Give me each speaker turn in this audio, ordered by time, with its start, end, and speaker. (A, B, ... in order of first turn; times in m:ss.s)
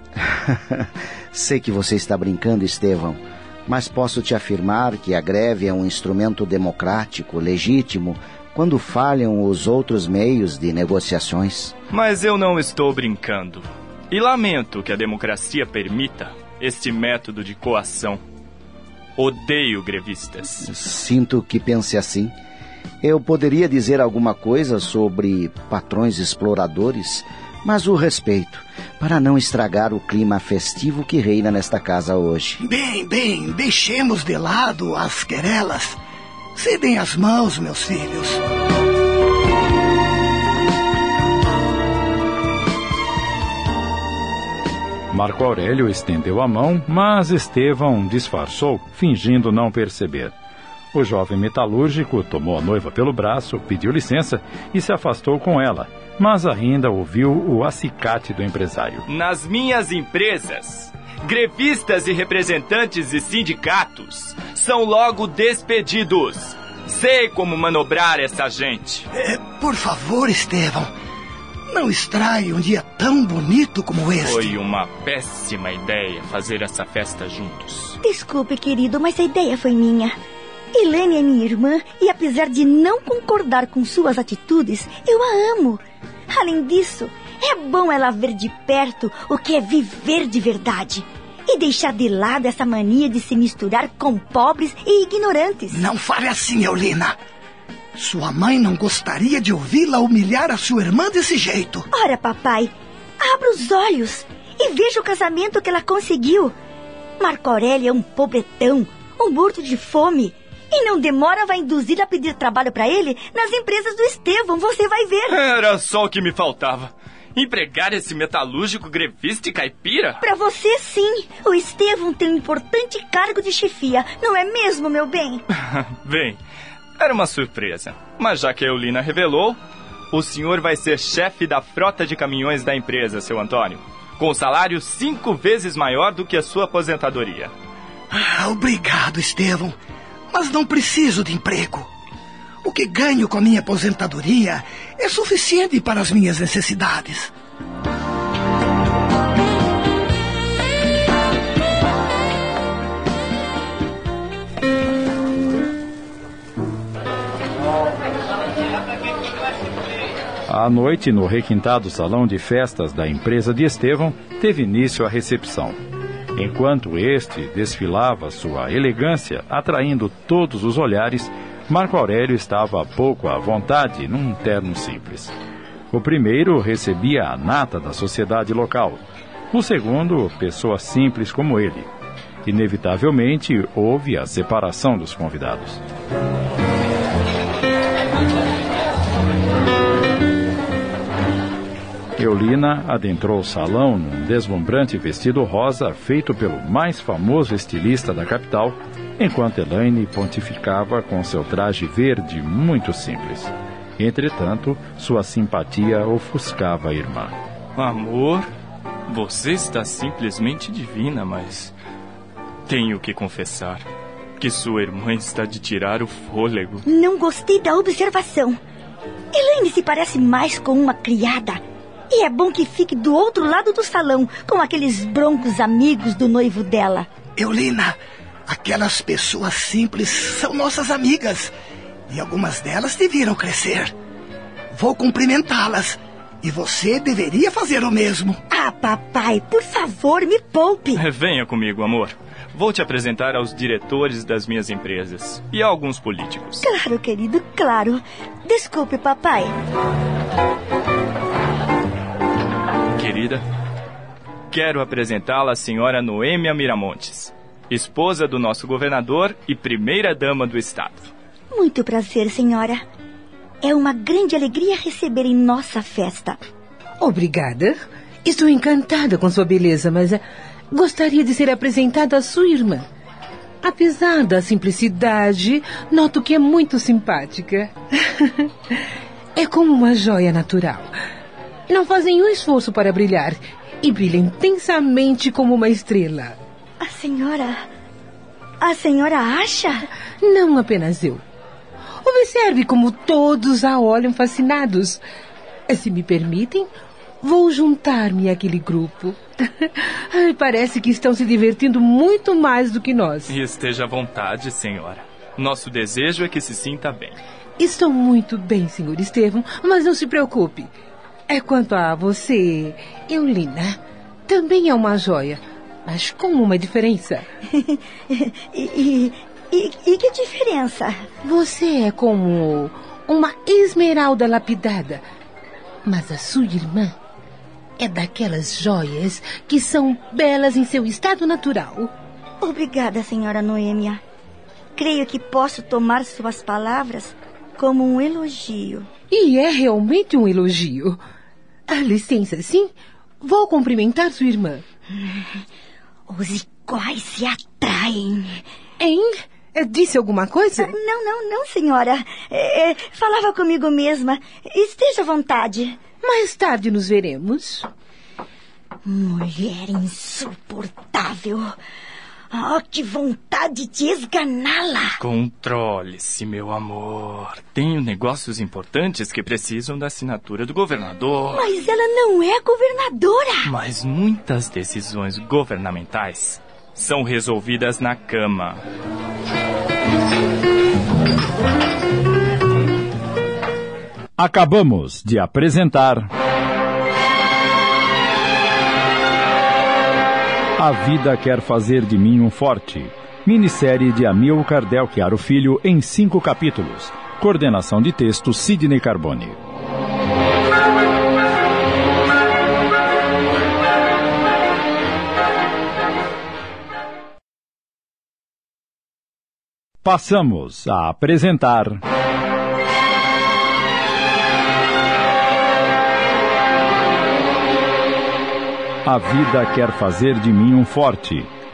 0:00.2-0:11.7 A
0:11.9-0:18.2 B
0:19.2-0:20.7 B
0:20.6-0:22.3 A
0:23.0-0:32.6 A
0:32.6-0:36.0 C
0:36.6-0:38.4 C
0:45.1-0:50.3 D
0:50.9-0:59.0 D
0:59.1-1:09.0 B
1:09.1-1:10.9 C
1:11.7-1:14.5 C
1:14.2-1:18.0 B
1:18.0-1:20.2 E
1:20.7-1:35.8 E
1:35.7-1:37.2 C
1:37.9-1:41.9 C
1:41.9-1:46.5 E
1:47.2-1:55.4 E
1:55.3-2:00.2 B
2:00.2-2:05.4 E
2:05.6-2:06.4 B
2:07.0-2:09.6 B
2:10.1-2:17.5 B
2:18.1-2:19.8 C
2:20.3-2:21.9 C
2:22.6-2:27.3 C
2:40.5-2:45.8 D
2:46.3-2:55.3 D
2:55.9-3:01.9 D
3:02.4-3:05.8 D
3:12.2-3:27.3 D
3:27.8-3:28.5 B
3:29.1-3:31.7 B
3:32.7-3:33.9 B
3:34.4-3:36.8 B
3:36.8-3:38.6 E
3:39.3-3:47.1 E
3:47.4-3:51.5 C
3:52.1-3:53.9 C
3:54.7-3:58.4 C
3:58.5-4:01.0 E
4:01.0-4:06.6 B
4:06.6-4:09.5 E
4:12.9-4:13.4 B
4:14.5-4:21.1 B
4:21.5-4:22.8 E
4:23.6-4:26.4 E
4:27.0-4:32.8 F
4:33.6-4:37.7 F
4:39.4-4:40.9 F
4:41.7-4:46.4 F
4:46.8-4:47.7 E
4:48.6-4:49.8 E
4:50.2-4:51.2 F
4:52.0-4:55.0 F
4:55.7-4:56.7 F
4:57.2-5:03.3 F
5:03.3-5:07.2 B
5:07.6-5:10.7 F
5:11.3-5:17.2 F
5:17.5-5:21.0 E
5:21.2-5:25.0 F
5:25.8-5:27.0 F
5:27.8-5:31.9 F
5:32.4-5:34.0 E
5:34.8-5:38.9 E
5:39.1-5:41.0 F
5:41.7-5:44.6 F
5:45.0-5:45.4 E
5:46.1-5:48.4 E
5:48.8-5:50.7 F
5:50.6-5:55.8 E
5:56.0-5:57.7 F
5:58.8-6:01.5 E
6:02.3-6:05.0 E
6:05.0-6:11.5 B
6:11.3-6:13.5 E
6:13.4-6:18.6 B
6:24.2-6:26.1 D
6:30.6-6:39.4 D
6:49.8-6:51.8 D
6:58.8-7:01.3 D